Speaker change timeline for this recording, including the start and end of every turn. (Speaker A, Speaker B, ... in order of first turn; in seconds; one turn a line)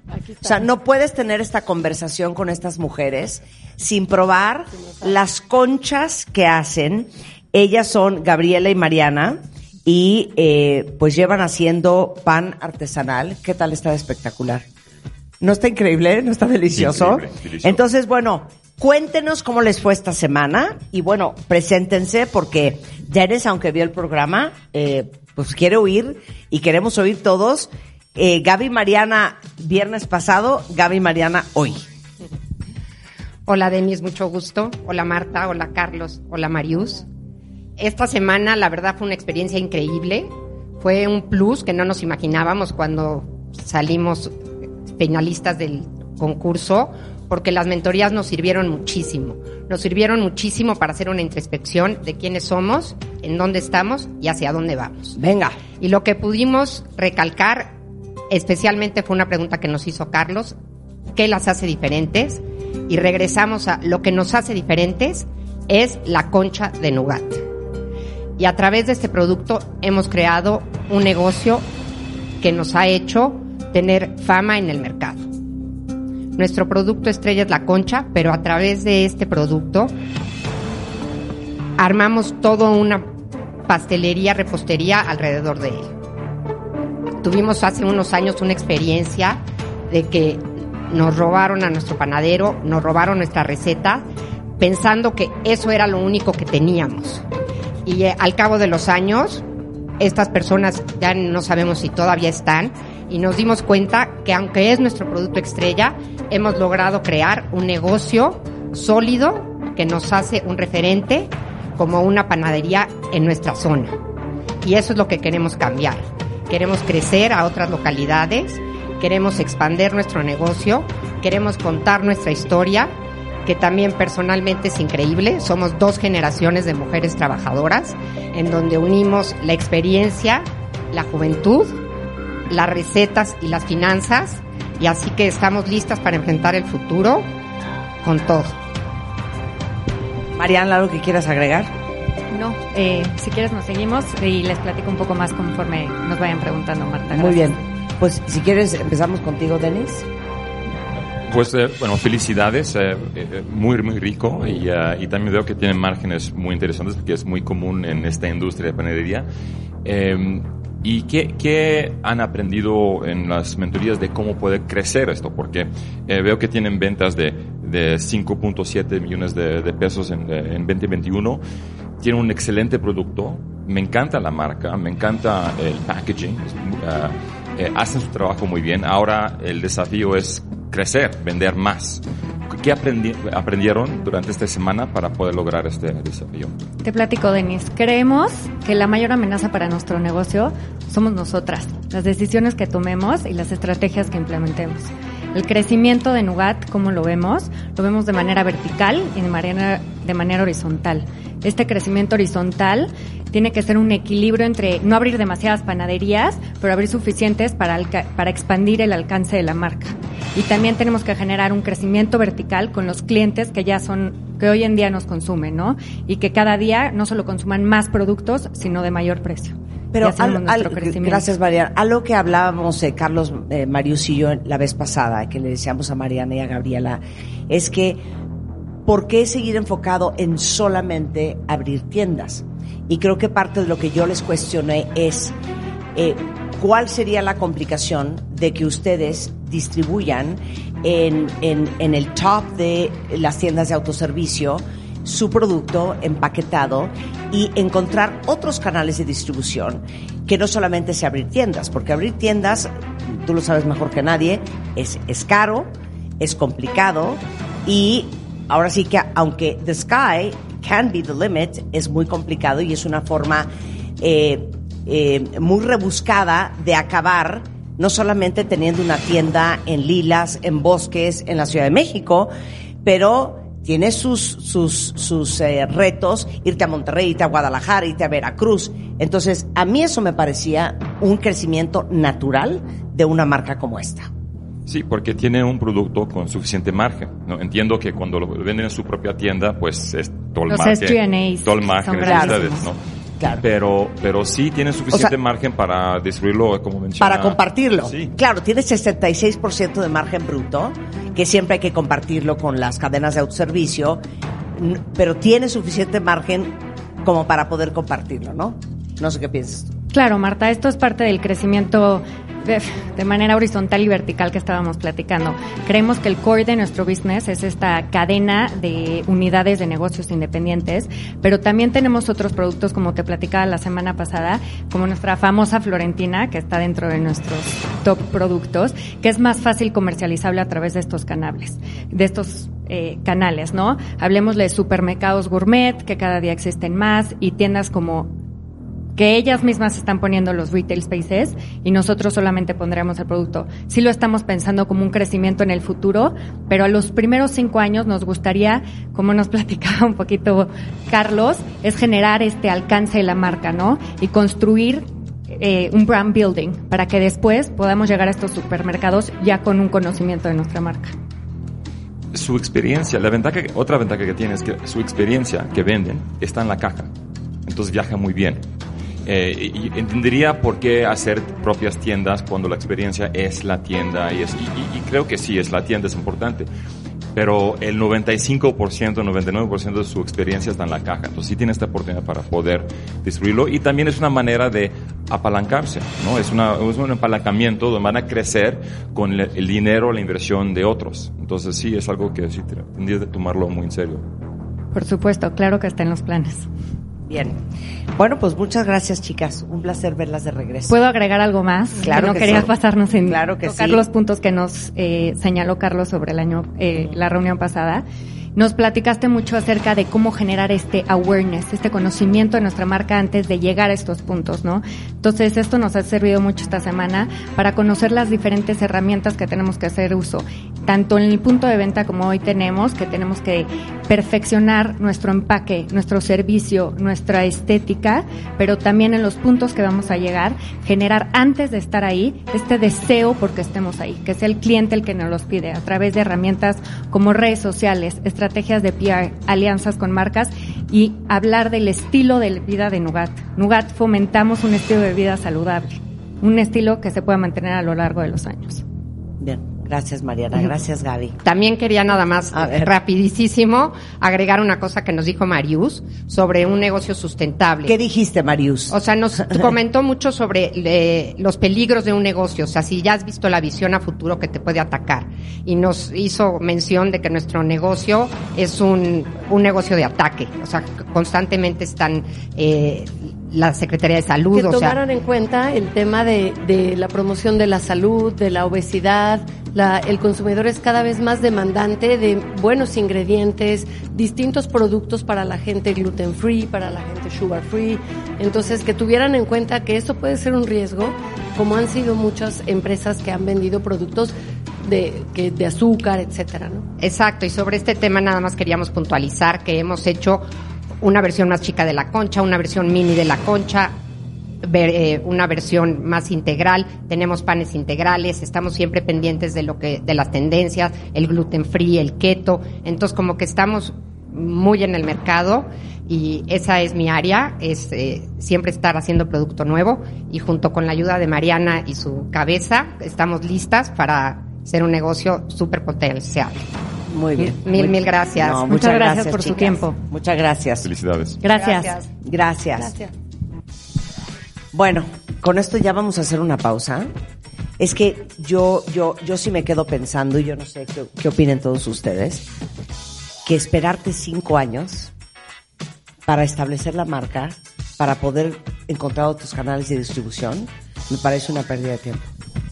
Speaker A: 0.2-0.6
Speaker B: 0.4-14.6
Speaker B: 15.4-31.9
Speaker C: 16.7-17.8
Speaker D: 33.5-37.0
Speaker D: 37.8-55.1
Speaker B: 55.1-55.6
Speaker D: 55.8-57.7
Speaker D: 58.3-60.5
Speaker D: 61.1-67.4
Speaker D: 68.4-71.7
Speaker D: 72.4-75.3
Speaker D: 76.3-79.9
Speaker D: 81.8-83.0
Speaker D: 83.7-85.9
Speaker D: 87.2-94.0
Speaker D: 94.6-97.2
Speaker D: 97.8-99.4
Speaker D: 100.0-114.0
Speaker D: 114.6-122.9
Speaker D: 123.4-131.8
Speaker D: 132.5-137.3
Speaker D: 138.0-138.6
Speaker B: 140.3-141.7
Speaker E: 142.3-147.6
Speaker B: 147.1-150.1
Speaker C: 151.2-159.3
Speaker C: 159.8-171.4
Speaker C: 172.0-186.6
Speaker E: 186.8-221.3
Speaker B: 219.9-228.0
Speaker B: 228.8-235.3
Speaker B: 235.9-272.3
Speaker B: 272.8-284.1
Speaker C: 284.7-292.8
Speaker E: 290.5-292.6
Speaker B: 292.0-292.5
Speaker C: 293.3-298.1
Speaker B: 297.0-304.0
Speaker B: 304.5-309.7
Speaker E: 309.9-338.1
Speaker E: 338.9-360.9
Speaker C: 362.1-366.9
Speaker C: 367.4-368.4
Speaker C: 369.1-376.5
Speaker C: 377.1-394.0
Speaker E: 394.7-396.5
Speaker B: 397.0-397.4
Speaker B: 397.9-400.7
Speaker E: 400.7-407.8
Speaker B: 401.7-403.9
Speaker E: 408.4-448.6
Speaker B: 449.2-451.2
Speaker D: 451.2-457.7
Speaker B: 452.3-452.7
Speaker B: 457.6-459.5
Speaker D: 458.7-474.8
Speaker A: 474.3-496.6
Speaker D: 496.8-500.2
Speaker D: 500.8-503.8
Speaker D: 504.4-526.5
Speaker B: 526.9-530.7
Speaker D: 527.3-528.5
Speaker E: 528.5-529.8
Speaker C: 530.6-531.2
Speaker E: 531.2-531.8
Speaker D: 531.3-531.7
Speaker B: 531.9-532.7
Speaker B: 534.5-536.9
Speaker B: 537.6-542.3
Speaker B: 543.2-544.9
Speaker B: 546.0-552.1